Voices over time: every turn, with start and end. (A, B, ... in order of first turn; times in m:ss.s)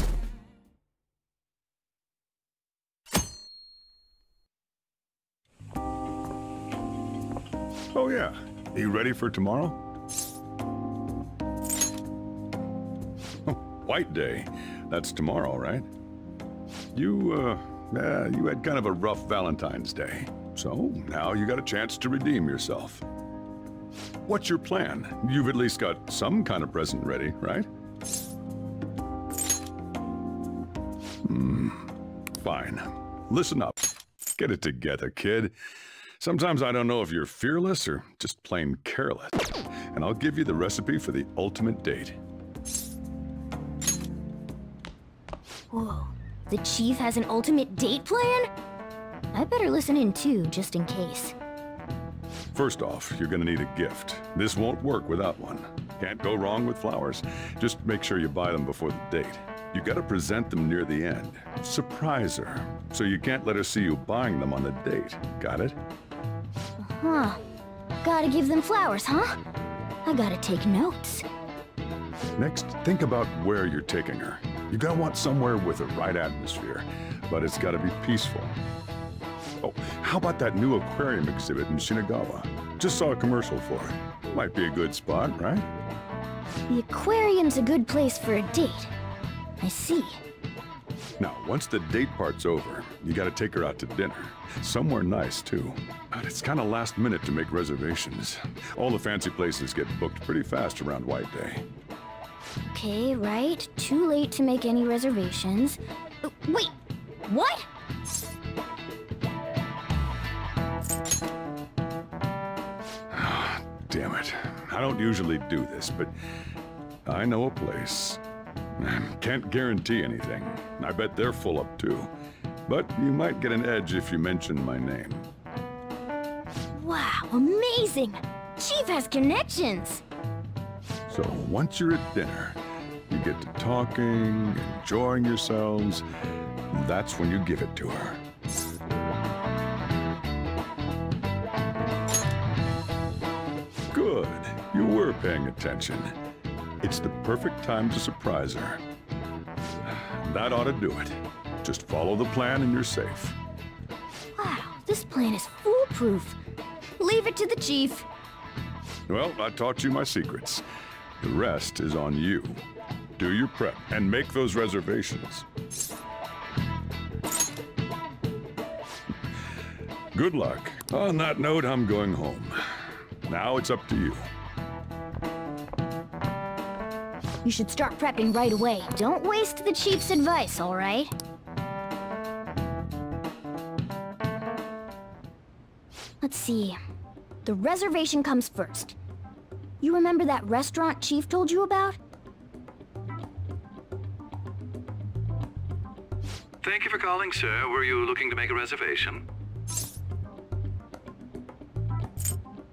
0:07.9-0:09.8 A
0:13.5-0:15.8 A
0:17.0-0:23.0 A
0:24.3-0:27.7 A
0:31.2-0:31.9 A
0:32.4-0:33.8 A
0:34.4-0:35.5 A
0:36.2-0:39.4 A
0:39.9-0:42.2 A
0:45.7-0:48.5 B
0:49.3-0:51.4 B
0:52.5-1:05.8 A
1:06.8-1:07.4 B
1:08.0-1:09.4 B
1:10.1-1:11.2 B
1:12.4-1:18.6 A
1:19.6-1:25.7 A
1:26.7-1:28.9 B
1:29.6-1:30.2 B
1:31.2-1:41.6 A
1:42.7-1:46.8 B
1:47.3-1:47.7 B
1:53.1-1:56.1 A
1:57.1-1:58.2 A
1:58.8-2:02.1 A
2:02.7-2:05.2 A
2:06.7-2:10.0 B
2:11.1-2:12.6 A
2:13.1-2:16.0 A
2:16.7-2:18.2 A
2:23.9-2:26.1 A
2:26.8-2:28.8 A
2:30.0-2:33.4 A
2:34.4-2:36.4 B
2:37.0-2:38.1 B
2:39.1-2:40.6 A
2:41.2-2:42.6 A
2:43.2-2:45.4 A
2:50.1-2:52.6 A
2:53.3-2:54.2 A
2:57.4-3:01.1 B
3:06.2-3:06.8 B
3:07.4-3:09.0 B
3:09.8-3:12.0 B
3:16.6-3:19.2 C